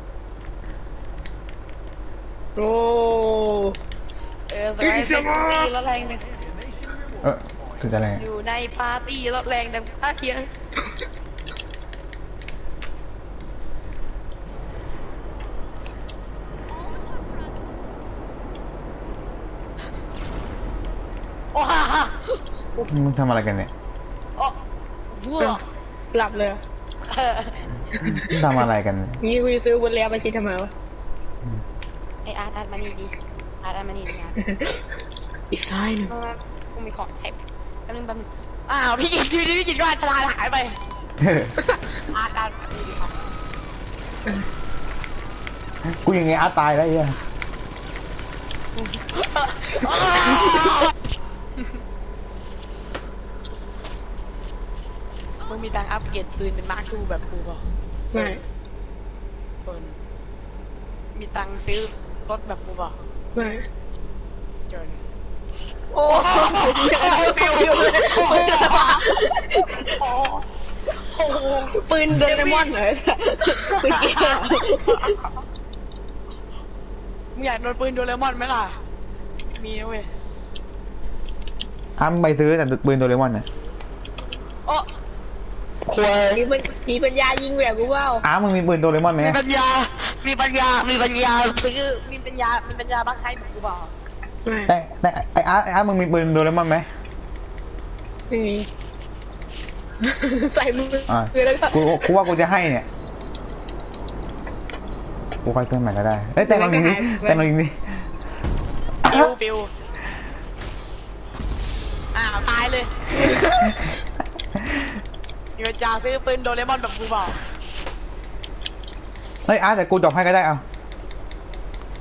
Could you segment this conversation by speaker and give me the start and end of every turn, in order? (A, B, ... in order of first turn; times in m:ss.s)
0:02.6-0:03.8 A
0:04.5-0:06.2 B
0:04.8-0:05.7 A
0:07.2-0:08.2 C
0:08.1-0:10.5 B
0:21.5-0:22.2 B
0:22.9-0:23.7 C
0:25.1-0:25.6 B
0:26.1-0:26.6 A
0:27.1-0:27.6 B
0:27.9-0:28.4 A
0:28.1-0:29.2 C
0:29.2-0:30.7 A
0:32.2-0:34.3 B
0:34.4-0:34.8 A
0:35.5-0:36.1 A
0:36.1-0:40.8 B
0:41.2-0:41.5 C
0:42.1-0:43.1 B
0:45.8-0:47.2 C
0:48.9-0:50.9 B
0:55.4-0:58.4 B
0:58.1-0:58.4 A
0:59.6-1:00.0 B
1:01.1-1:02.9 B
1:03.4-1:03.6 A
1:04.7-1:05.0 B
1:05.9-1:09.9 A
1:06.0-1:09.0 B
1:10.0-1:10.4 B
1:11.0-1:12.7 B
1:11.8-1:15.1 A
1:13.6-1:15.3 B
1:17.3-1:18.8 B
1:19.5-1:20.1 B
1:22.0-1:23.4 C
1:25.9-1:26.4 B
1:26.3-1:28.2 A
1:28.2-1:29.4 C
1:29.2-1:33.9 B
1:34.4-1:34.7 A
1:34.7-1:36.9 C
1:38.3-1:38.7 A
1:40.0-1:42.2 A
1:41.1-1:42.9 C
1:45.4-1:48.0 C
1:46.4-1:47.4 A
1:49.0-1:49.7 B
1:52.1-1:52.9 B
1:53.2-1:53.8 A
1:55.6-1:57.4 B
1:59.4-2:00.6 C